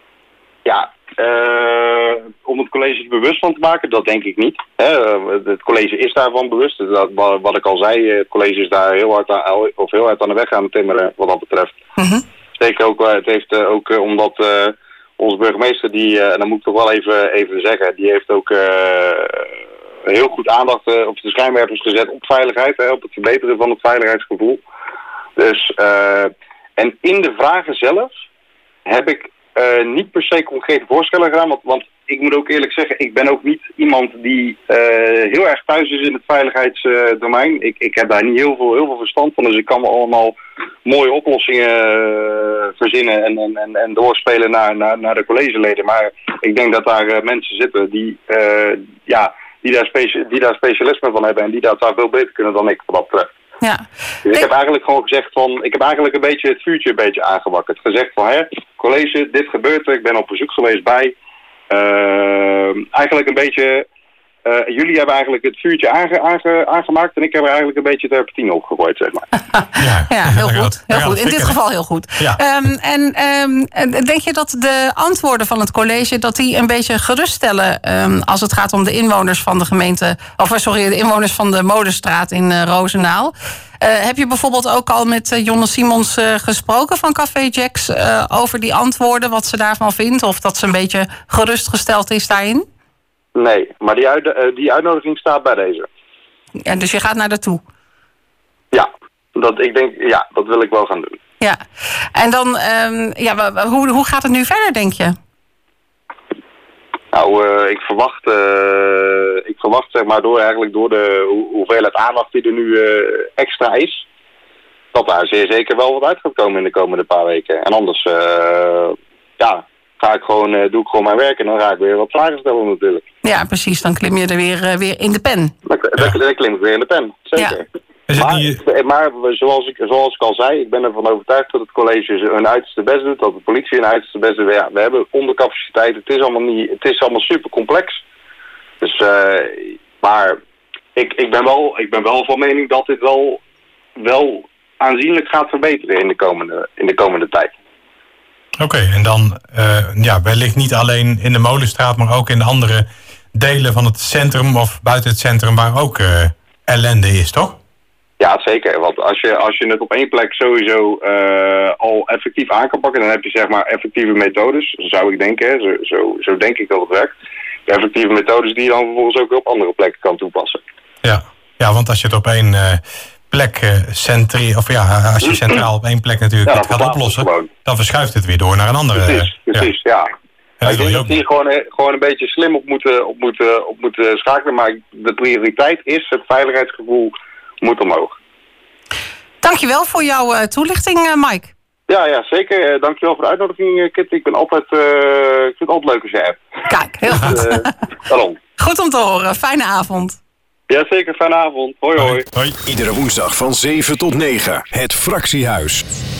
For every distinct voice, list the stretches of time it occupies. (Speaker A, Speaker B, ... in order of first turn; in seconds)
Speaker A: 0.6-11.8, 12.6-19.4, 20.1-24.6, 25.4-28.1, 28.9-53.3, 54.2-61.1, 61.7-63.8, 64.5-69.2, 93.3-95.9, 98.7-101.1, 107.1-114.0, 114.9-123.0, 125.7-127.6, 128.2-138.0, 138.8-140.4, 140.9-143.4, 144.0-147.5, 158.2-167.1, 167.7-170.6, 175.2-175.6, 176.4-177.5, 178.9-180.1, 180.6-188.1, 191.9-196.4, 197.1-198.4, 200.7-202.2
Speaker B: 12.0-12.2, 53.6-54.4, 70.1-92.6, 96.6-97.6, 102.1-105.1, 123.2-125.5, 189.4-191.5, 196.6-197.7, 198.6-200.2
Speaker C: 69.8-71.6, 128.1-128.6, 148.6-157.6, 171.0-179.7, 180.6-181.2, 202.0-202.6
Speaker D: 202.6-205.8